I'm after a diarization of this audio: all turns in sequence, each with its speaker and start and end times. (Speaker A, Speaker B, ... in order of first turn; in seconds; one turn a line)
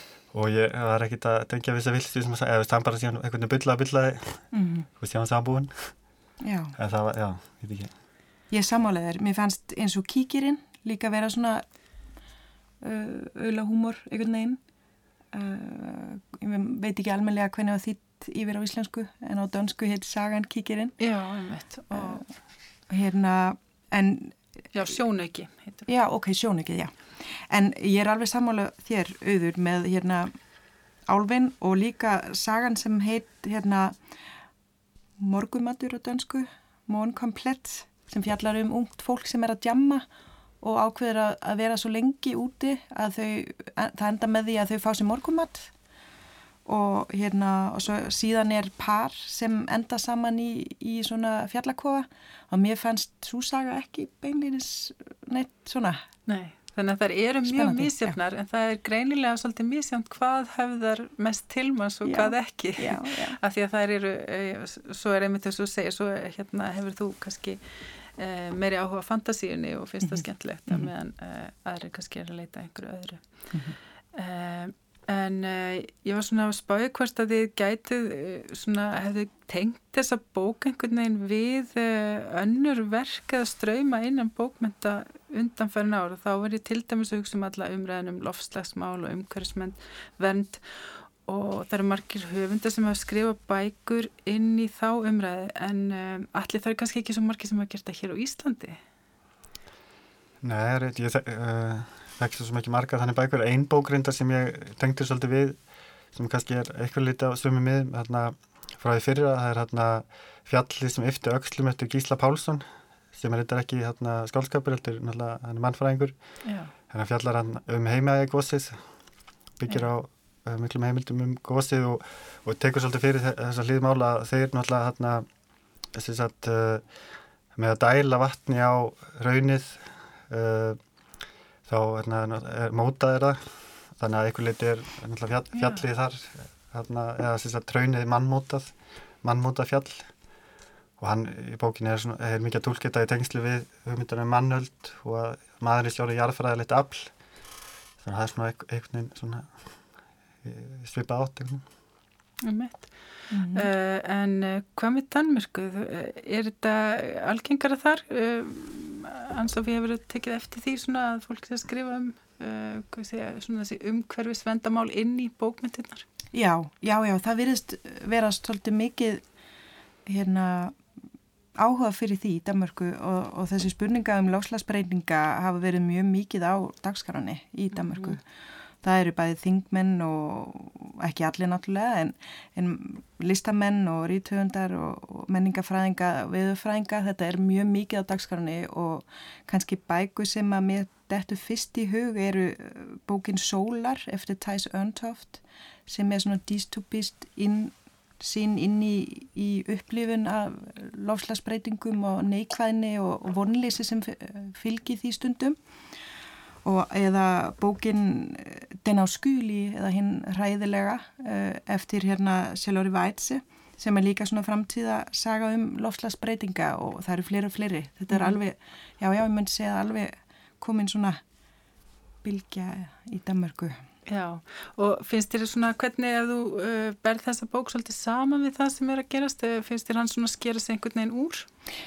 Speaker A: 0.3-4.5
Speaker B: 4.5-4.9
Speaker A: 5.0-6.0
Speaker B: 6.4-6.8
Speaker A: 6.8-7.9
Speaker B: 8.5-11.6
Speaker B: 12.8-14.6
Speaker B: 15.3-20.9
Speaker C: 21.0-22.2
Speaker B: 21.9-22.3
Speaker B: 22.9-24.4
Speaker C: 24.7-25.9
Speaker B: 25.9-30.3
Speaker B: 31.1-34.0
Speaker B: 35.2-40.0
Speaker B: 40.6-45.7
Speaker B: 46.6-56.0
Speaker C: 56.3-73.2
Speaker B: 57.5-58.1
Speaker B: 62.0-63.4
Speaker B: 70.0-70.9
Speaker C: 74.1-98.8
Speaker A: 100.4-105.6
Speaker A: 106.1-116.1
Speaker C: 116.5-116.7
Speaker A: 116.9-118.8
Speaker A: 119.6-125.3
Speaker A: 125.9-126.8
Speaker A: 127.6-130.8
Speaker A: 131.7-140.1
Speaker C: 135.5-135.8
Speaker A: 141.0-147.1
Speaker A: 148.0-149.8
Speaker A: 150.4-151.6
Speaker C: 152.4-152.9
Speaker B: 153.3-153.7
Speaker C: 153.5-166.1
Speaker B: 166.3-169.2
Speaker B: 170.1-170.8
Speaker B: 171.6-178.2
Speaker C: 177.9-178.2
Speaker B: 178.8-205.6
Speaker B: 206.6-221.2
Speaker C: 218.1-218.4
Speaker B: 222.2-223.8
Speaker C: 224.1-231.5